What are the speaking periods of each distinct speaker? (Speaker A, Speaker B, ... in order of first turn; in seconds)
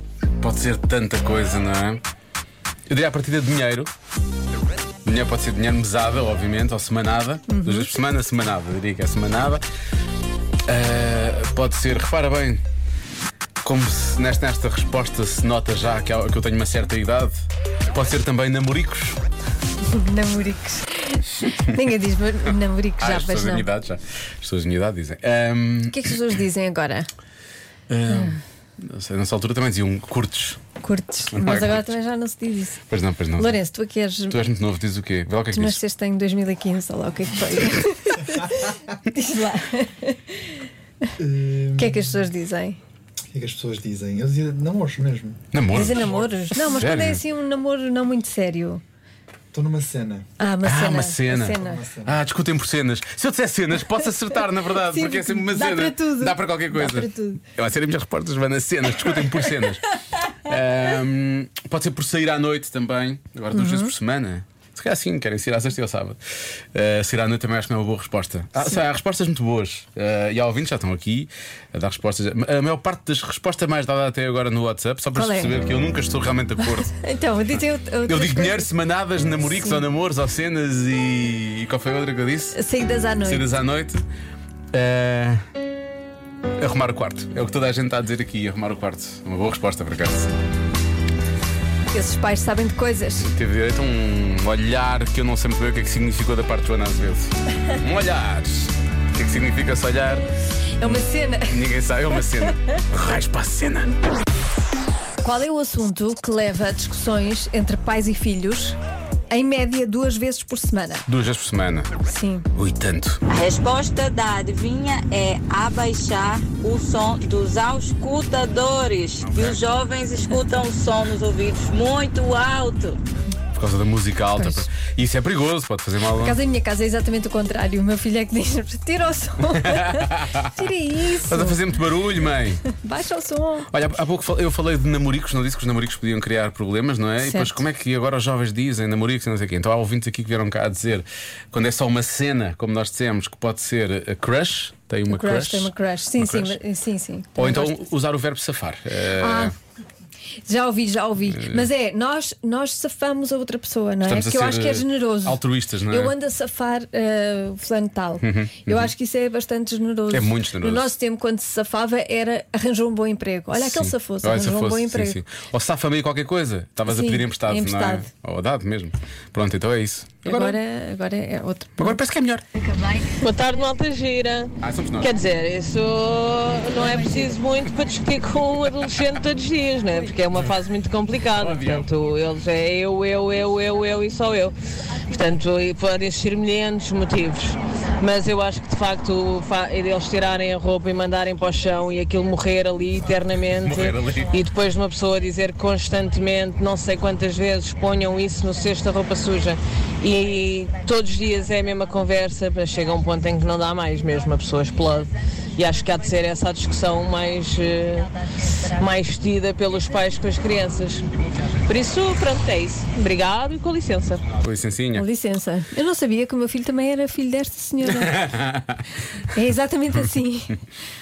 Speaker A: 0.4-2.0, 2.9-3.9, 5.0-9.6, 10.7-12.6, 13.6-17.4, 17.9-19.2, 23.0-26.2, 27.9-30.6, 31.3-31.9, 32.9-33.5, 34.3-35.8, 45.5-47.2, 50.6-59.8, 60.4-66.2, 66.7-76.9, 78.0-82.6, 83.2-84.0, 84.7-85.4, 86.6-90.3, 93.2-100.2, 100.8-104.1, 111.1-111.9, 112.5-113.2, 119.2-119.6, 123.5-126.4, 129.5-130.7, 131.2-132.6, 133.7-146.6, 147.3-149.5, 151.3-151.7, 154.0-156.1, 158.2-158.9, 160.1-160.9, 163.5-170.6, 171.8-172.4, 174.6-175.1, 181.3-181.9, 193.6-194.3, 214.4-215.1, 217.8-218.8
Speaker B: 7.5-7.9, 19.9-23.7, 25.9-27.1, 28.1-28.4, 30.8-32.8, 33.4-34.4, 35.5-40.2, 41.8-42.8, 45.7-48.8, 50.4-51.9, 54.8-57.4, 63.5-63.9, 75.1-75.6, 76.6-78.7, 79.5-79.8, 82.5-83.5, 91.9-93.2, 100.8-101.6, 105.2-108.8, 109.3-111.0, 112.0-112.5, 124.4-124.6, 126.1-131.6, 132.7-133.7, 137.2-137.6, 145.1-147.8, 149.2-149.5, 150.4-165.2, 166.9-168.1, 170.2-172.0, 214.9-218.2, 219.3-220.6
Speaker C: 41.2-42.0, 43.3-45.4, 49.5-50.3, 51.6-52.1
Speaker D: 113.3-123.0
Speaker E: 173.2-184.5, 185.1-211.1, 211.7-214.2